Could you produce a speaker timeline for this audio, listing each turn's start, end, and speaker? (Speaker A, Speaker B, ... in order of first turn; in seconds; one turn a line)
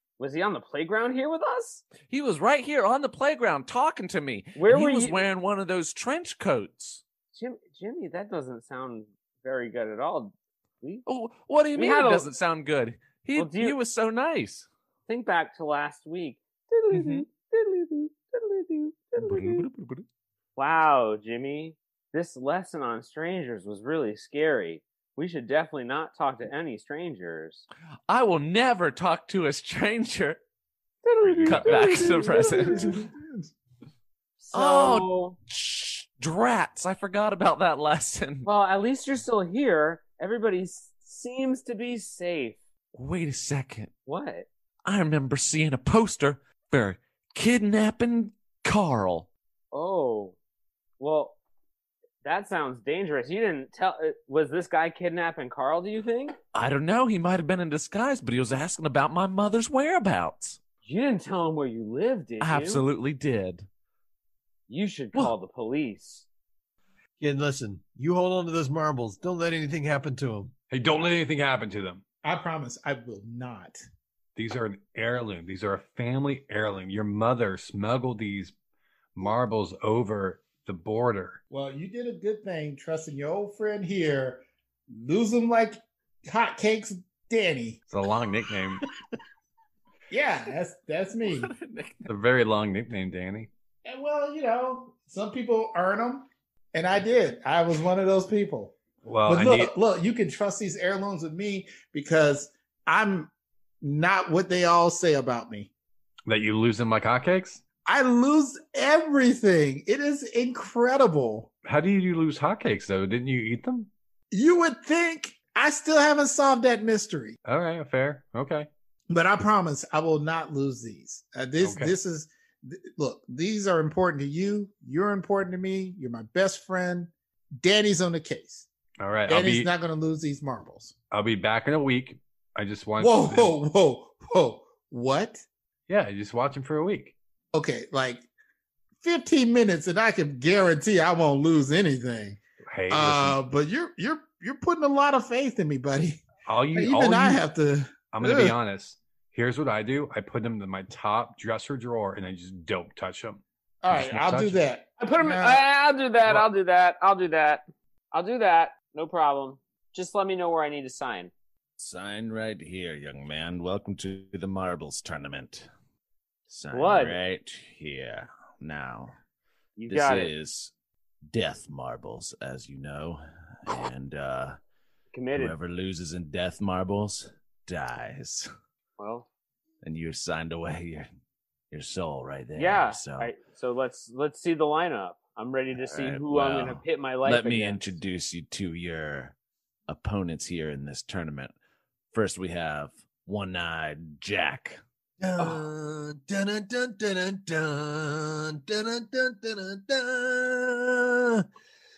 Speaker A: 0.2-1.9
Speaker B: 2.0-7.0
Speaker A: 4.5-5.2
Speaker A: 7.3-11.0
Speaker B: 11.1-14.7
Speaker A: 11.7-12.3
Speaker A: 13.3-13.8
Speaker A: 15.1-19.6
Speaker B: 16.9-17.2
Speaker B: 19.2-20.0
Speaker A: 20.6-27.6
Speaker B: 28.1-30.4
Speaker A: 31.0-33.0
Speaker B: 31.2-33.0
Speaker C: 31.6-33.5
Speaker A: 34.4-35.4
Speaker B: 34.5-38.5
Speaker A: 38.4-42.6
Speaker B: 42.9-43.9
Speaker A: 44.0-44.5
Speaker B: 44.9-49.3
Speaker A: 49.7-50.4
Speaker A: 51.0-51.4
Speaker A: 52.2-56.4
Speaker B: 56.5-60.6
Speaker A: 60.8-62.8
Speaker B: 62.4-63.6
Speaker A: 64.7-66.2
Speaker D: 67.2-70.5
Speaker E: 70.7-72.0
Speaker C: 72.2-73.8
Speaker E: 74.3-78.5
Speaker E: 79.2-81.4
Speaker C: 81.5-87.8
Speaker E: 87.9-88.8
Speaker C: 90.1-91.5
Speaker B: 91.2-92.1
Speaker E: 92.1-93.5
Speaker C: 93.8-98.8
Speaker E: 99.0-99.7
Speaker C: 99.3-103.3
Speaker C: 103.8-105.7
Speaker E: 106.3-107.6
Speaker C: 107.8-111.5
Speaker E: 111.7-113.9
Speaker C: 114.3-117.4
Speaker E: 117.5-118.7
Speaker C: 119.1-128.7
Speaker E: 121.6-121.9
Speaker E: 129.0-129.7
Speaker C: 129.3-130.9
Speaker E: 131.1-133.5
Speaker C: 133.0-135.4
Speaker E: 135.9-137.1
Speaker C: 137.5-138.2
Speaker C: 139.0-142.4
Speaker E: 142.7-143.4
Speaker C: 142.9-148.5
Speaker E: 146.4-147.4
Speaker E: 148.1-154.6
Speaker C: 153.8-155.6
Speaker A: 155.0-161.3
Speaker B: 161.8-165.7
Speaker B: 166.5-169.1
Speaker A: 166.7-167.2
Speaker A: 169.8-170.3
Speaker B: 169.9-170.7
Speaker B: 171.3-174.6
Speaker A: 175.1-175.5
Speaker B: 175.3-178.5
Speaker A: 179.0-179.3
Speaker B: 179.8-181.1
Speaker B: 181.7-183.3
Speaker A: 182.6-187.9
Speaker B: 185.8-189.3
Speaker B: 189.9-191.5
Speaker B: 192.1-194.8
Speaker D: 195.2-201.4
Speaker A: 195.4-195.6